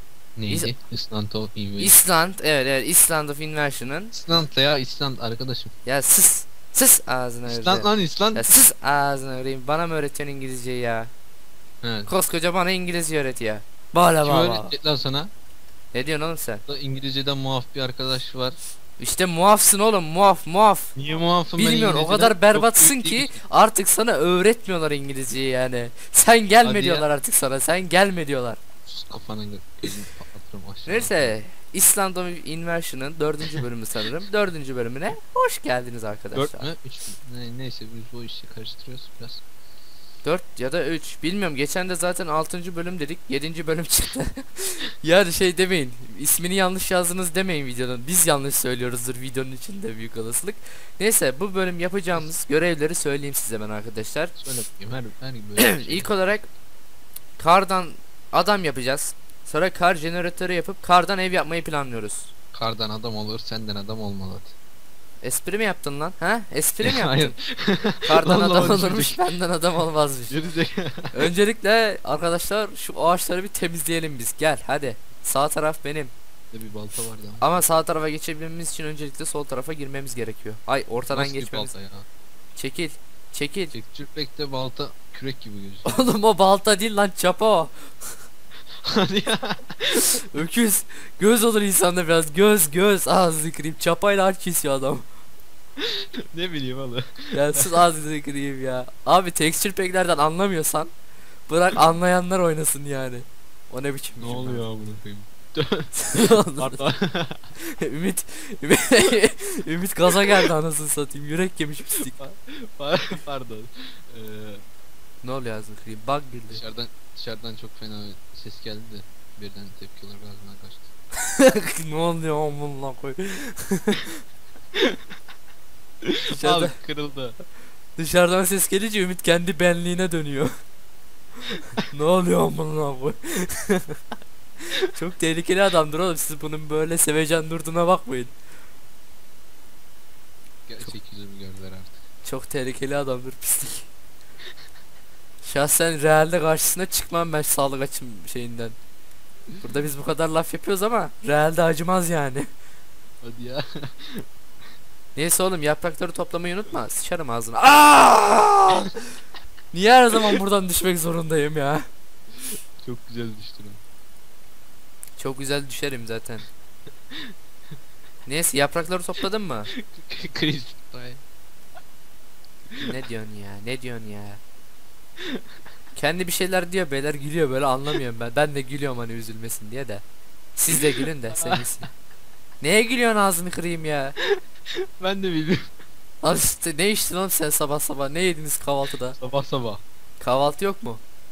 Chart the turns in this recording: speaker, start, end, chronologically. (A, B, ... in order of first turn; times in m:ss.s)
0:00.4-0:02.0 A
0:01.8-0:04.1 B
0:04.1-0:05.7 A
0:05.8-0:11.1 B
0:07.5-0:08.5 A
0:11.8-0:12.1 A
0:12.1-0:14.7 B
0:14.2-0:15.3 A
0:15.9-0:16.6 B
0:16.7-0:18.6 A
0:19.0-0:20.9 B
0:20.9-0:23.4 A
0:21.6-0:28.6 B
0:26.6-0:27.1 A
0:28.8-0:31.4 A
0:30.8-0:36.7 B
0:36.3-0:39.4 A
0:40.2-0:54.4 B
0:54.4-0:56.1 A
0:55.6-0:56.5 B
0:57.4-1:02.3 B
1:02.5-1:04.5 A
1:05.2-1:07.4 B
1:06.8-1:09.3 A
1:08.1-1:10.4 B
1:10.3-1:11.3 A
1:11.1-1:16.1 B
1:16.5-1:17.6 A
1:17.4-1:21.7 B
1:21.1-1:22.0 A
1:22.6-1:23.7 B
1:23.7-1:26.1 A
1:25.8-1:27.9 B
1:28.8-1:30.0 A
1:29.9-1:35.0 B
1:35.8-1:37.8 A
1:37.3-1:40.9 B
1:41.5-1:44.6 B
1:44.2-1:47.4 A
1:46.0-1:46.8 B
1:47.7-1:52.1 B
1:50.1-1:50.4 A
1:52.1-1:54.6 A
1:55.2-1:56.6 B
1:56.5-2:00.9 A
2:01.3-2:04.1 B
2:06.0-2:07.4 A
2:06.3-2:06.7 B
2:08.0-2:10.6 B
2:11.5-2:14.0 B
2:14.9-2:18.3 B
2:20.7-2:21.9 A
2:22.2-2:23.9 B
2:25.4-2:28.8 B
2:29.6-2:32.5 B
2:33.2-2:34.3 A
2:35.2-2:39.0 B
2:39.7-2:41.9 B
2:42.8-2:43.8 A
2:45.2-2:46.5 B
2:48.2-2:49.7 B
2:49.7-2:51.2 A
2:52.8-2:54.4 B
2:55.9-3:00.0 B
3:00.6-3:01.9 B
3:01.3-3:01.6 A
3:02.6-3:04.1 B
3:04.2-3:05.7 A
3:06.2-3:09.2 B
3:09.2-3:09.8 A
3:10.2-3:11.0 B